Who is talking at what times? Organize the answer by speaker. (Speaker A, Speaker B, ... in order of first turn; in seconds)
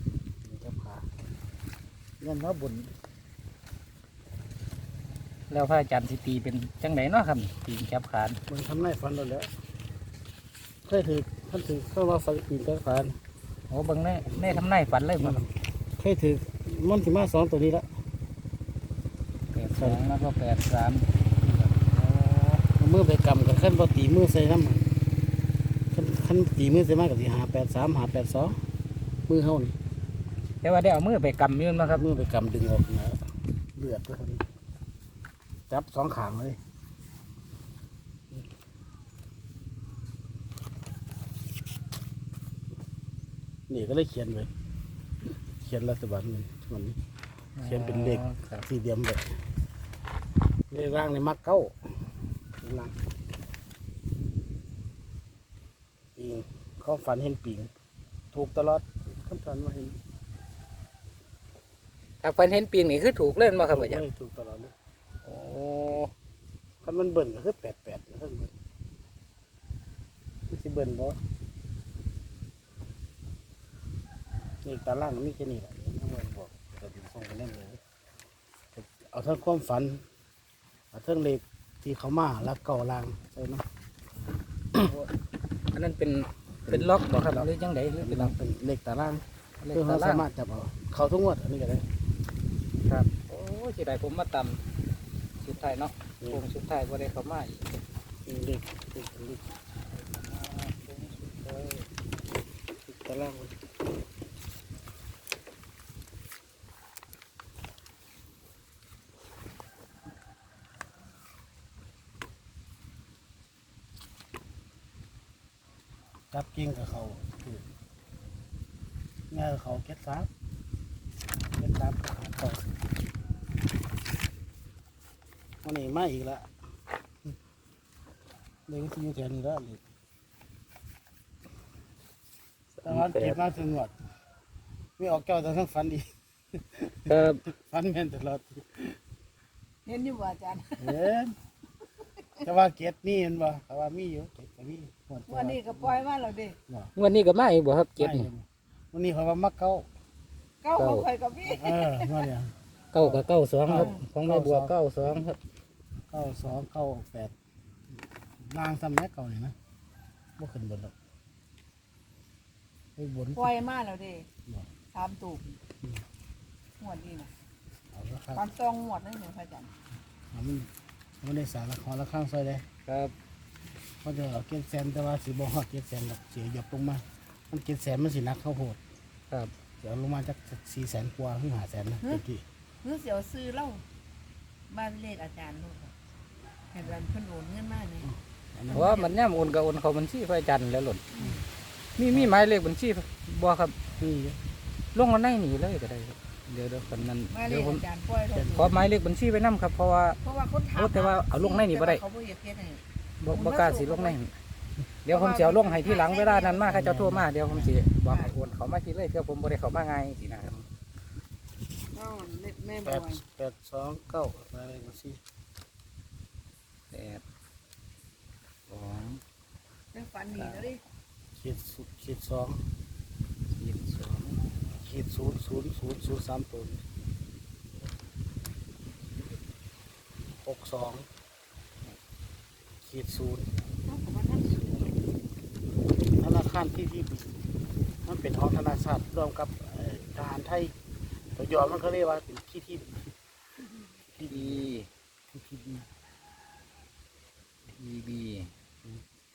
Speaker A: 0.5-1.1, 2.2-2.9, 8.5-9.5, 10.9-13.2, 15.2-17.9, 21.4-24.9, 25.9-28.6, 29.3-29.8, 31.9-33.2, 33.8-34.4, 35.7-36.6, 43.7-44.5, 45.6-47.0, 47.6-49.3, 50.7-51.8, 52.6-52.9, 56.2-57.7, 58.3-60.0, 63.6-64.7, 66.8-68.5, 70.5-71.2, 74.6-77.8, 78.8-80.0, 80.9-83.6, 86.7-87.5, 88.0-91.9, 98.3-99.5, 102.8-103.6, 116.3-117.6, 119.3-120.3, 121.6-122.6, 125.6-126.5, 128.7-129.8, 132.9-133.9, 135.0-139.0, 140.8-141.3, 142.4-146.0, 148.0-149.8, 151.4-154.7, 156.1-157.3, 158.4-159.6, 160.4-160.9, 163.0-163.5, 167.9-168.4, 170.3-170.7, 171.2-172.6, 174.0-178.8, 179.8-182.4, 188.0-188.9, 194.0-194.4, 198.4-198.7, 206.8-207.7, 212.8-215.2, 221.4-222.6, 224.8-226.8, 230.4-231.1, 232.9-233.5, 236.2-237.3, 238.1-240.7, 241.4-243.1, 244.1-244.7, 245.3-245.8
Speaker B: 5.5-8.4, 13.7-15.4, 19.5-21.1, 30.6-32.0, 47.6-48.7, 62.2-64.0, 65.2-66.1, 84.8-85.1, 85.7-88.3, 89.6-90.2, 92.9-94.6, 95.4-97.8, 99.9-101.8, 132.8-133.4, 137.1-137.4, 146.9-148.3, 150.8-151.1, 152.9-155.4, 172.9-173.1, 188.7-191.1, 192.0-193.8, 194.9-197.9, 198.4-200.2, 200.7-202.0, 203.2-204.3, 205.1-210.6, 216.9-217.2, 218.7-219.2, 220.3-220.7, 223.6-224.4, 244.3-244.9, 247.8-248.5
Speaker C: 139.9-141.0, 145.3-146.6, 150.6-152.3, 163.3-164.3, 164.9-165.6, 166.8-167.3, 168.3-169.7, 182.8-183.8, 184.7-185.9, 186.7-188.1, 188.7-189.1, 191.1-191.4, 197.3-198.7, 200.2-204.2, 205.1-206.9, 208.0-208.3, 211.9-213.2, 219.9-220.8, 233.8-235.1